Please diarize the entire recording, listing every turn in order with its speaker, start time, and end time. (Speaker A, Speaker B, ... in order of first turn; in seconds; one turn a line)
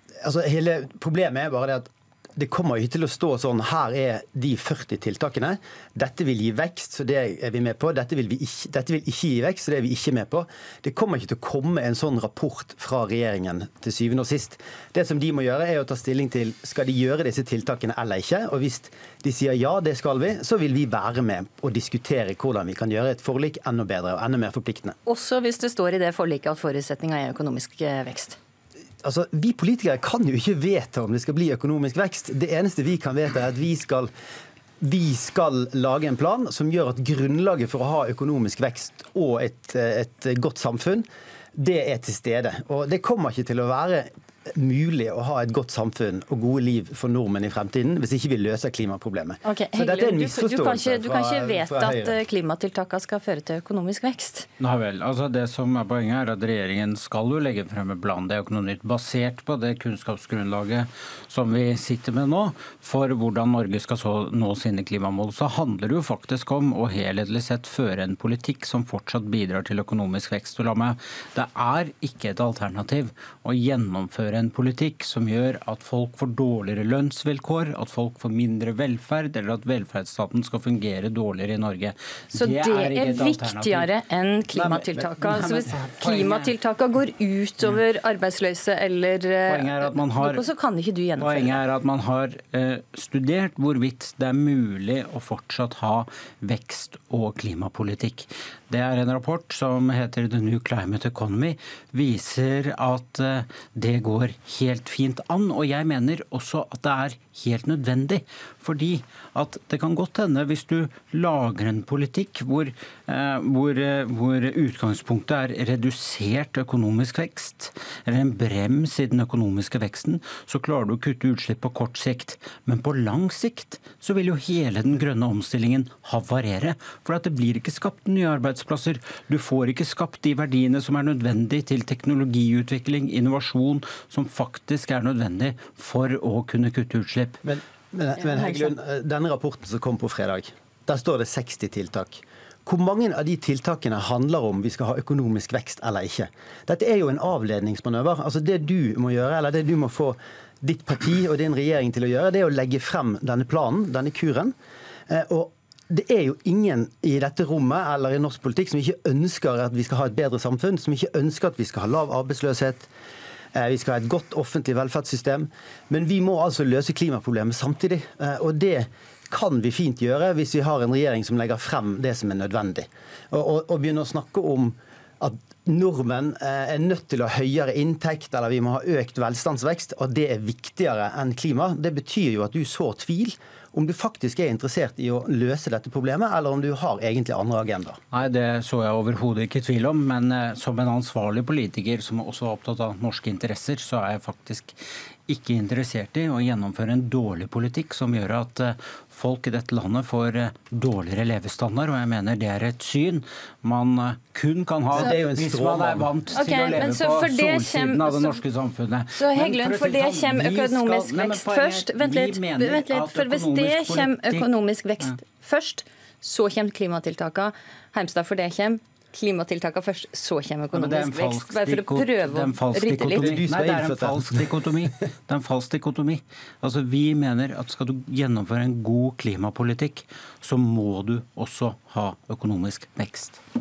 Speaker A: 0.2-24.9
Speaker B: 25.1-28.4
Speaker A: 29.0-34.1
Speaker A: 34.8-52.2
Speaker B: 49.4-54.5
Speaker C: 54.6-83.9
Speaker B: 82.3-91.6
Speaker C: 84.5-86.5
Speaker C: 89.5-90.4
Speaker C: 91.2-137.4
Speaker A: 137.4-154.5
Speaker B: 138.2-138.7
Speaker A: 155.1-162.9
Speaker A: 163.5-188.0
Speaker C: 188.1-214.5
Speaker A: 204.9-206.1
Speaker B: 206.3-208.4
Speaker B: 209.1-223.3
Speaker C: 220.7-233.4
Speaker A: 223.1-224.5